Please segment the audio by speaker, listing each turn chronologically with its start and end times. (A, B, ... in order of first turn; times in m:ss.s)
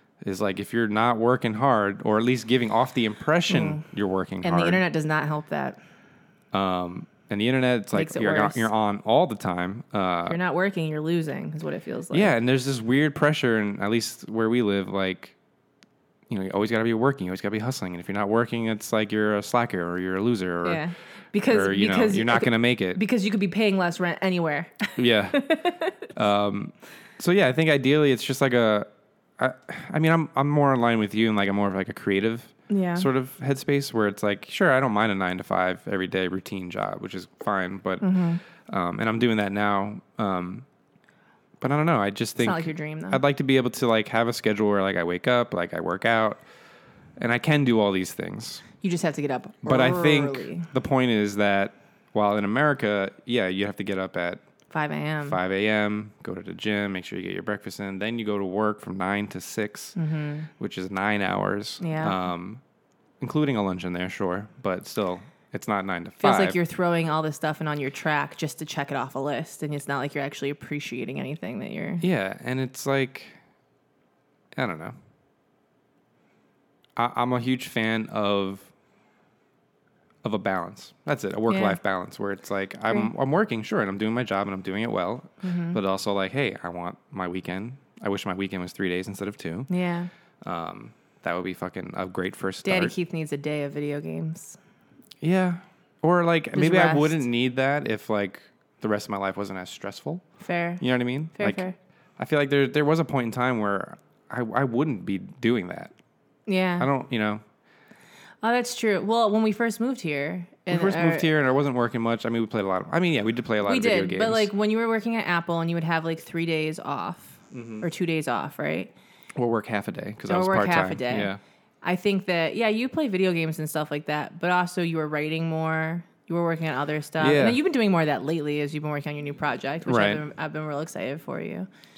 0:00.2-0:04.8 A
0:03.5-0:03.8 B
0:04.4-0:05.8 B
0:06.5-0:10.4 A
0:07.9-0:08.7 B
0:10.3-0:12.3 B
0:12.1-0:15.4 A
0:16.3-0:20.8 A
0:20.6-0:26.0 B
0:21.4-0:23.0 A
0:25.0-0:25.5 A
0:26.1-0:40.7 A
0:32.7-0:33.1 B
0:38.0-0:38.4 B
0:41.6-0:46.4 A
0:42.4-0:43.2 B
0:47.2-0:48.6 A
0:48.8-0:50.7 B
0:49.6-0:54.4 A
0:54.7-0:55.4 B
0:55.2-1:00.0 A
1:00.0-1:00.5 B
1:00.6-1:02.6 A
1:01.8-1:02.2 B
1:03.2-1:06.6 A
1:06.2-1:12.0 B
1:12.0-1:13.4 A
1:14.6-1:15.0 A
1:17.0-1:18.7 A
1:20.2-1:29.7 A
1:21.5-1:21.8 B
1:25.4-1:25.8 B
1:29.7-1:30.1 B
1:30.4-1:32.9 A
1:32.6-1:34.6 B
1:35.2-1:40.2 A
1:36.5-1:37.2 B
1:40.4-1:40.8 B
1:40.8-1:41.6 A
1:41.4-1:41.8 B
1:42.2-1:45.9 A
1:46.5-1:46.9 B
1:46.8-1:47.4 A
1:48.4-1:51.3 B
1:50.7-1:54.5 A
1:53.6-1:58.9 B
1:57.5-1:57.9 A
1:59.4-2:01.4 A
2:00.3-2:01.3 B
2:01.8-2:11.7 B
2:07.2-2:07.6 A
2:09.9-2:10.2 A